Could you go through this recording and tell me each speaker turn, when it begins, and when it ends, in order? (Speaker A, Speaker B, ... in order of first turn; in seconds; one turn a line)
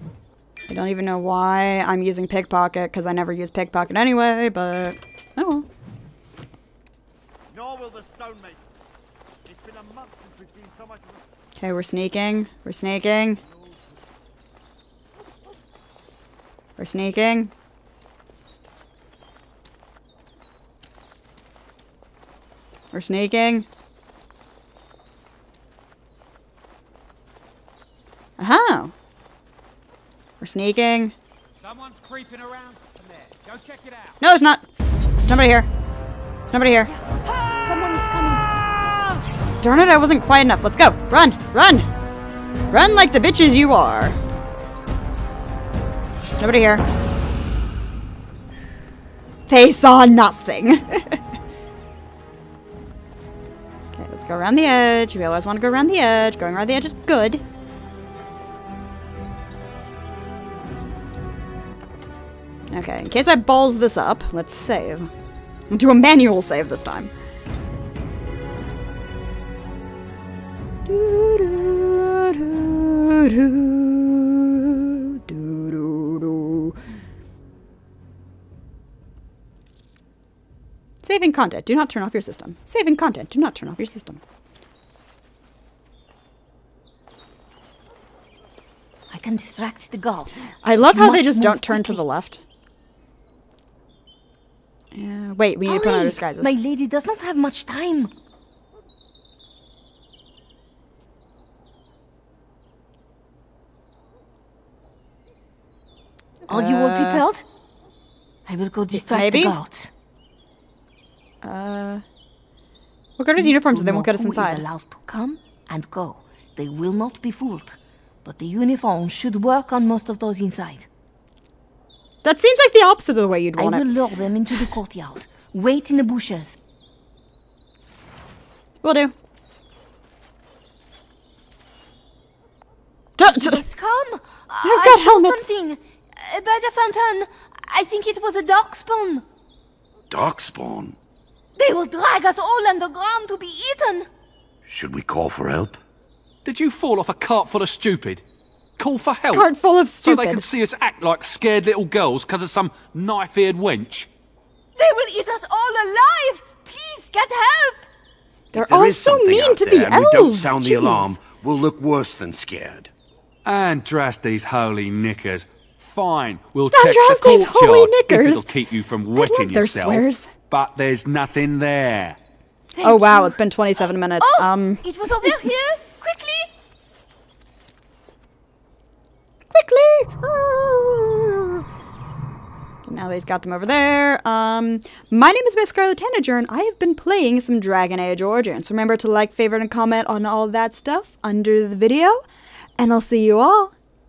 Speaker A: 0.7-5.7
Speaker B: 7.5-8.8
Speaker B: 9.4-11.2
Speaker A: 11.6-13.4
Speaker A: 16.8-17.5
Speaker A: 22.9-23.7
Speaker A: 28.4-28.9
Speaker A: 30.4-31.1
Speaker A: 34.2-34.6
Speaker A: 35.2-35.7
Speaker A: 36.5-36.9
Speaker C: 36.9-38.6
Speaker A: 39.6-41.9
Speaker A: 42.7-44.2
Speaker A: 46.4-46.8
Speaker A: 49.5-51.2
Speaker A: 53.9-57.4
Speaker A: 62.7-65.1
Speaker A: 65.7-67.1
Speaker A: 70.9-76.8
Speaker A: 81.0-84.2
Speaker C: 89.1-92.0
Speaker A: 90.6-92.4
Speaker A: 94.9-96.5
Speaker C: 95.7-98.1
Speaker A: 106.5-107.2
Speaker C: 106.5-107.4
Speaker C: 108.5-109.9
Speaker A: 108.9-109.6
Speaker A: 111.4-112.0
Speaker A: 113.2-114.6
Speaker C: 113.4-120.9
Speaker A: 122.2-123.9
Speaker C: 123.6-126.6
Speaker A: 128.8-129.1
Speaker A: 133.2-133.6
Speaker C: 133.2-139.2
Speaker A: 134.6-135.4
Speaker D: 140.1-140.9
Speaker C: 141.6-144.1
Speaker D: 144.7-145.8
Speaker E: 146.4-148.2
Speaker E: 148.8-149.5
Speaker A: 149.3-150.4
Speaker E: 150.0-154.1
Speaker C: 154.8-157.9
Speaker A: 158.5-161.2
Speaker D: 158.5-162.9
Speaker E: 163.4-172.2
Speaker A: 166.7-168.5
Speaker A: 169.1-170.3
Speaker C: 172.7-176.5
Speaker A: 172.8-175.5
Speaker A: 179.5-181.6
Speaker A: 182.9-192.2
Speaker A: 192.8-193.7